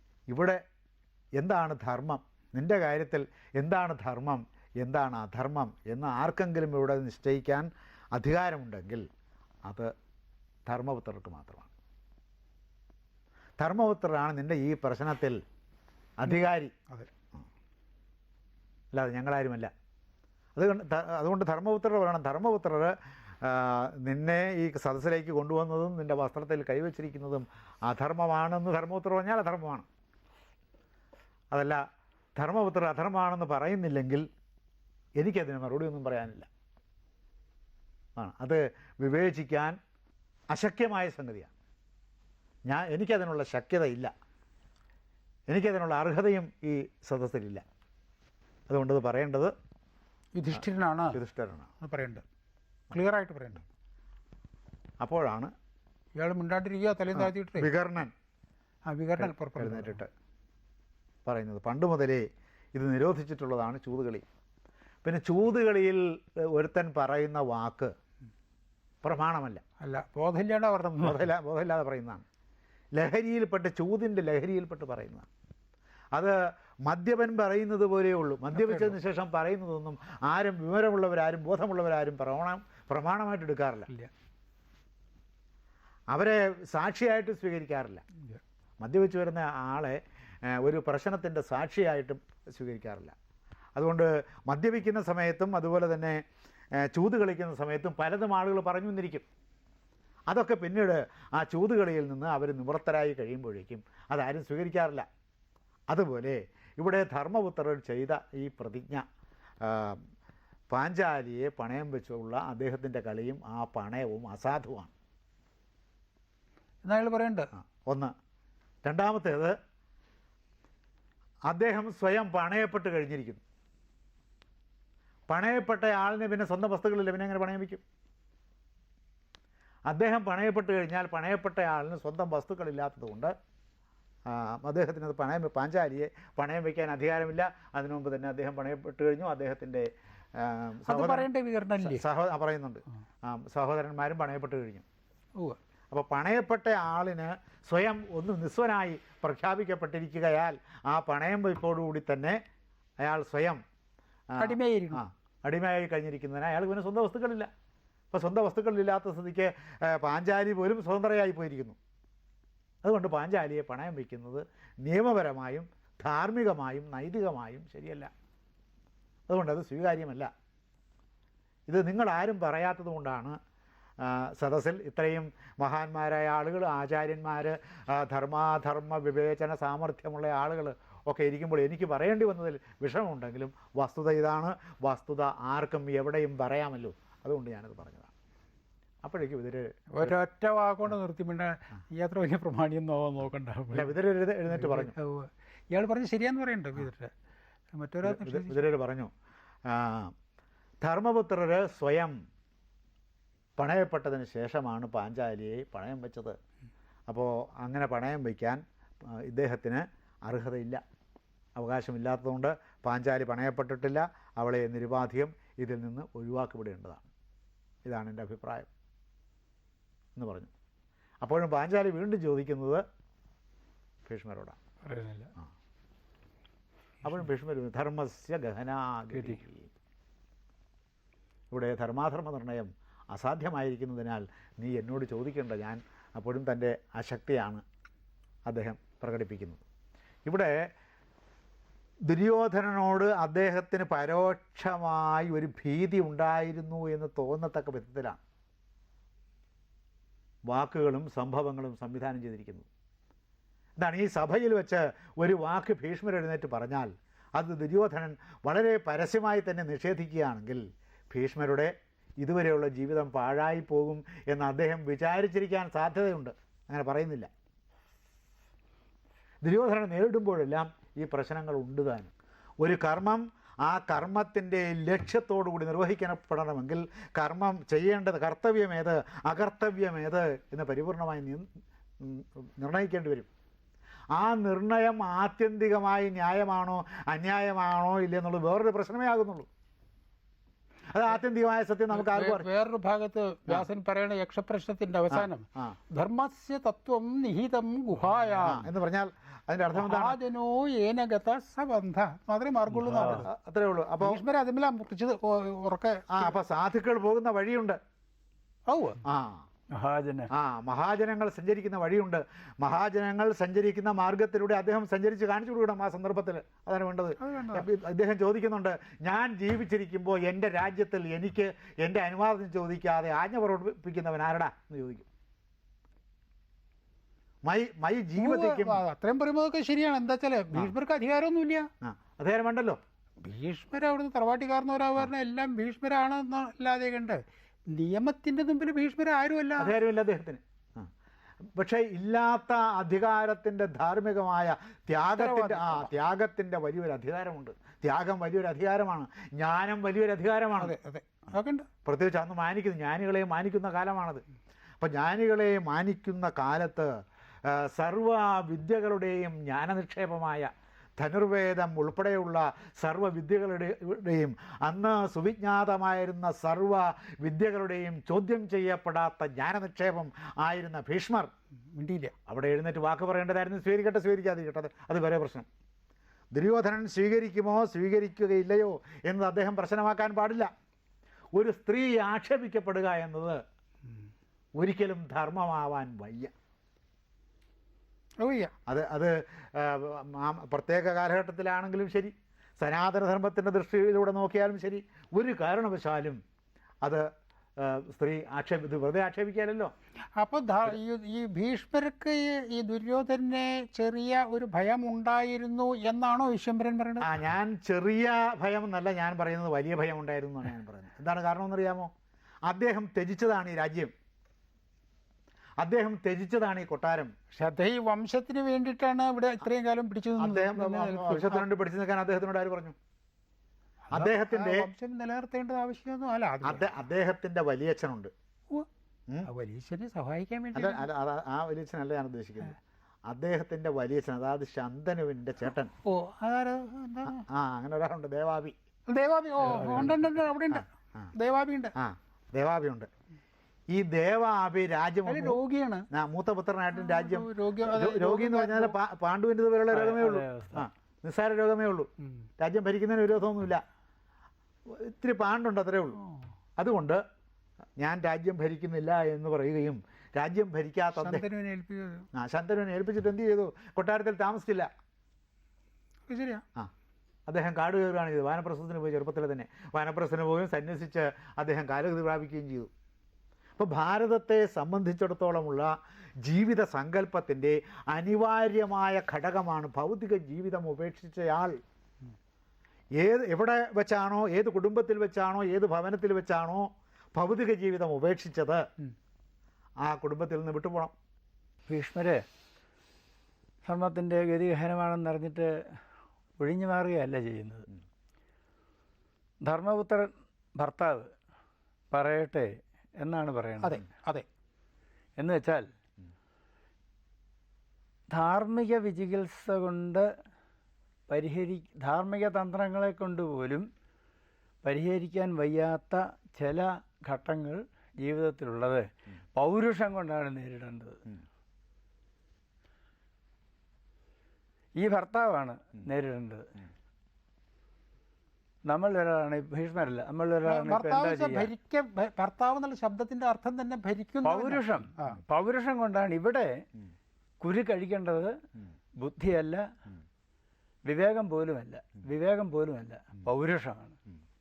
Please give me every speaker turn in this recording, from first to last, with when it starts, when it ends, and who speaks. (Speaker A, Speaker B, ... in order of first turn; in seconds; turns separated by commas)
Speaker A: 0.3-0.6, Speaker A: 1.4-9.1, Speaker A: 9.6-9.9, Speaker A: 10.7-11.7, Speaker A: 13.6-15.4, Speaker A: 16.2-16.7, Speaker A: 18.9-19.7, Speaker A: 20.6-29.9, Speaker A: 31.5-31.8, Speaker A: 32.4-34.3, Speaker A: 35.2-36.5, Speaker A: 38.2-39.8, Speaker A: 40.5-41.5, Speaker A: 42.7-44.1, Speaker A: 45.5-47.6, Speaker A: 48.7-49.5, Speaker B: 50.3-51.2, Speaker A: 51.1-51.7, Speaker B: 51.8-52.2, Speaker B: 52.9-53.6, Speaker A: 55.0-55.5, Speaker B: 56.2-57.7, Speaker A: 57.1-58.1, Speaker B: 58.9-60.0, Speaker A: 59.2-60.1, Speaker A: 61.2-64.2, Speaker A: 65.0-67.9, Speaker A: 69.0-69.6, Speaker B: 69.8-71.2, Speaker A: 71.0-72.2, Speaker A: 72.9-75.2, Speaker A: 76.1-83.9, Speaker B: 78.5-78.9, Speaker A: 86.1-88.0, Speaker A: 88.8-93.1, Speaker A: 93.8-96.2, Speaker A: 96.7-99.2, Speaker A: 100.3-105.0, Speaker A: 105.9-109.0, Speaker A: 109.6-110.0, Speaker A: 110.7-114.9, Speaker B: 116.8-117.5, Speaker A: 117.5-118.1, Speaker A: 118.8-119.5, Speaker A: 121.5-123.4, Speaker A: 125.3-127.8, Speaker A: 129.9-133.3, Speaker A: 134.3-141.3, Speaker B: 140.9-142.0, Speaker A: 141.8-144.8, Speaker A: 145.9-152.4, Speaker A: 153.0-153.6, Speaker A: 154.3-157.5, Speaker B: 154.4-155.0, Speaker A: 158.1-161.8, Speaker A: 162.8-168.1, Speaker A: 169.3-170.3, Speaker A: 171.7-173.4, Speaker A: 174.0-188.1, Speaker A: 189.0-190.1, Speaker B: 189.9-193.9, Speaker A: 193.7-194.9, Speaker B: 194.5-197.1, Speaker B: 197.7-198.6, Speaker A: 198.0-199.1, Speaker A: 199.7-200.1, Speaker A: 200.8-202.2, Speaker A: 203.6-206.4, Speaker A: 207.1-210.8, Speaker A: 211.6-217.1, Speaker A: 217.8-218.7, Speaker A: 220.2-220.5, Speaker A: 221.2-222.8, Speaker A: 224.1-224.6, Speaker B: 224.9-225.3, Speaker A: 227.0-229.7, Speaker C: 229.1-229.4, Speaker A: 231.5-237.6, Speaker A: 238.5-239.6, Speaker A: 240.2-240.7, Speaker A: 242.1-248.2, Speaker A: 250.5-252.7, Speaker A: 253.8-267.3, Speaker A: 269.4-281.5, Speaker A: 282.0-283.3, Speaker A: 284.1-289.5, Speaker A: 290.9-292.5, Speaker B: 291.9-298.7, Speaker A: 295.1-295.8, Speaker A: 298.4-300.2, Speaker B: 299.7-303.3, Speaker C: 302.8-303.2, Speaker A: 302.9-304.2, Speaker B: 304.0-306.4, Speaker A: 306.1-307.8, Speaker B: 308.7-309.0, Speaker A: 309.0-309.4, Speaker C: 309.7-310.3, Speaker A: 310.3-325.1, Speaker B: 317.2-317.7, Speaker A: 327.4-328.8, Speaker B: 328.2-331.7, Speaker A: 331.8-332.8, Speaker B: 333.2-339.7, Speaker A: 339.6-340.9, Speaker A: 341.5-350.7, Speaker B: 345.1-345.9, Speaker B: 350.6-351.7, Speaker A: 351.8-354.2, Speaker A: 354.8-371.3, Speaker B: 371.7-372.1, Speaker A: 372.3-375.5, Speaker A: 376.3-380.5, Speaker A: 381.3-383.4, Speaker A: 384.6-386.3, Speaker B: 388.2-388.5, Speaker A: 388.7-396.2, Speaker A: 396.8-399.7, Speaker B: 400.1-407.1, Speaker A: 407.0-411.9, Speaker A: 412.4-413.9, Speaker A: 415.6-417.1, Speaker B: 417.3-421.4, Speaker A: 420.2-422.8, Speaker A: 423.9-424.7, Speaker B: 423.9-426.7, Speaker A: 426.4-428.1, Speaker B: 429.2-430.9, Speaker A: 430.5-435.7, Speaker B: 435.8-437.2, Speaker A: 437.1-438.5, Speaker B: 438.9-441.7, Speaker A: 439.5-439.9, Speaker A: 440.5-441.1, Speaker A: 441.7-442.9, Speaker A: 443.7-445.4, Speaker B: 445.1-445.9, Speaker A: 445.9-453.6, Speaker B: 446.7-448.8, Speaker C: 449.7-450.7, Speaker A: 454.7-456.0, Speaker A: 456.6-457.0, Speaker A: 457.8-461.2, Speaker B: 461.0-462.1, Speaker A: 462.1-464.7, Speaker B: 466.1-466.4, Speaker A: 467.3-472.7, Speaker A: 473.6-481.6, Speaker A: 483.0-488.6, Speaker A: 489.8-490.9, Speaker C: 491.7-492.2, Speaker C: 493.6-495.6, Speaker C: 496.4-497.6, Speaker C: 499.4-501.1, Speaker C: 501.9-503.8, Speaker B: 503.6-504.2, Speaker C: 505.2-505.7, Speaker C: 508.1-510.1, Speaker C: 511.1-513.7, Speaker C: 514.6-521.0, Speaker C: 524.8-526.6, Speaker C: 528.7-531.5, Speaker B: 530.4-535.2, Speaker C: 534.2-536.6, Speaker C: 537.4-538.4, Speaker C: 539.0-539.7, Speaker C: 540.9-544.0